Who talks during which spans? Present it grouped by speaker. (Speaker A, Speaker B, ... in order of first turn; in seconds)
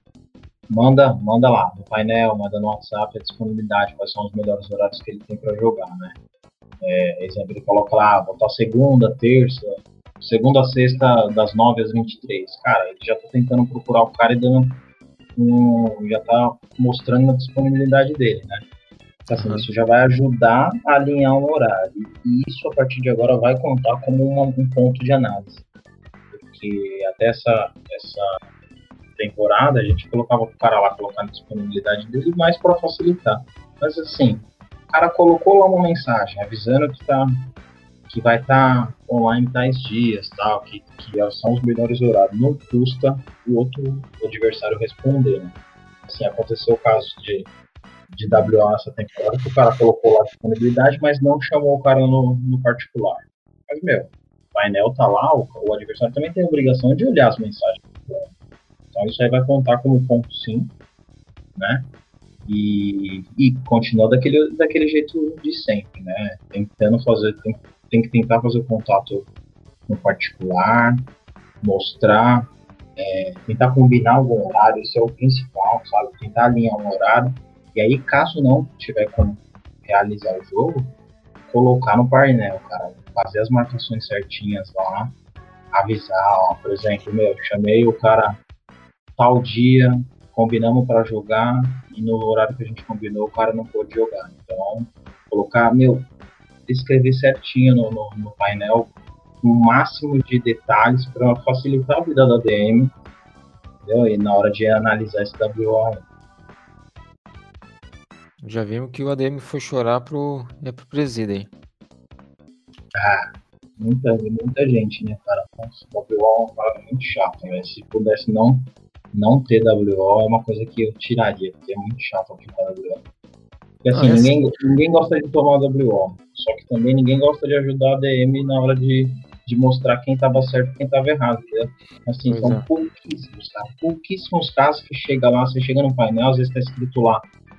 Speaker A: 0.7-6.2, 6.8-14.8, 15.3-18.6, 19.3-25.6, 26.3-28.3, 29.2-37.5, 38.1-45.5, 46.1-47.5, 48.1-58.3, 58.9-60.7, 61.5-61.9, 62.5-69.3, 69.9-71.1, 71.6-80.9, 81.5-85.2, 85.7-88.4, 89.2-96.1, 96.7-102.9, 103.8-106.0, 112.9-123.0, 123.8-137.3
Speaker B: 19.3-19.7, 108.4-111.5, 123.9-124.6, 132.3-132.7